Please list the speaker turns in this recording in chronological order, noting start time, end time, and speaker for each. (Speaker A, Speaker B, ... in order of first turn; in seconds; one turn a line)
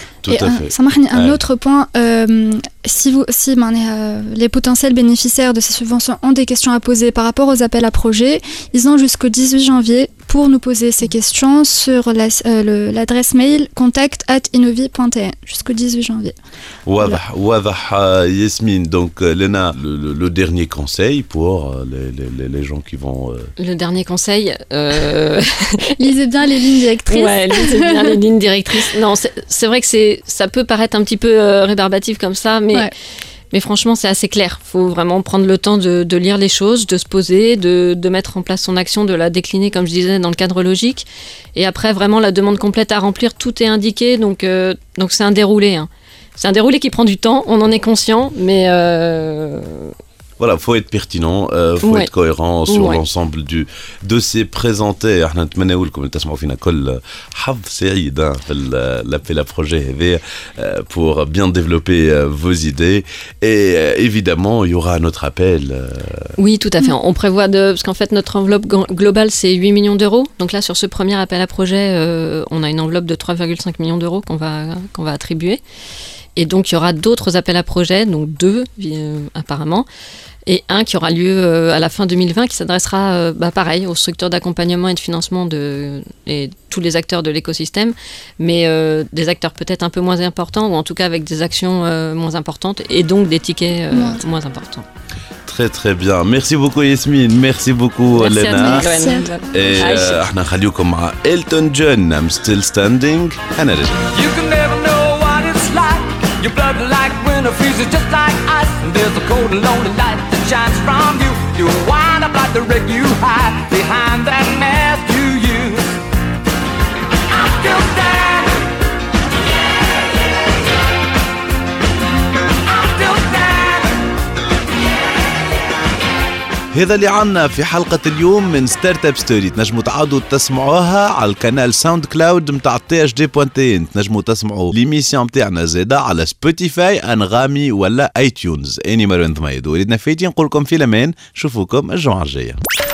Speaker A: 0.2-1.4
Speaker B: 0.3-16.3
Speaker A: 16.9-23.5
Speaker C: 23.6-25.9
Speaker B: 26.0-28.2
Speaker C: 27.1-32.9
Speaker C: 33.5-49.9
Speaker A: 50.4-66.3
Speaker C: 51.8-52.1
Speaker C: 52.7-53.0
Speaker C: 66.4-75.6
Speaker C: 76.3-79.9
Speaker C: 80.5-94.8
Speaker B: 93.9-94.2
Speaker A: 95.5-104.0
Speaker C: 98.1-100.2
Speaker B: 98.5-100.1
Speaker D: 104.1-116.0
Speaker D: 117.3-118.6
Speaker D: 122.7-124.0
Speaker A: 126.7-142.6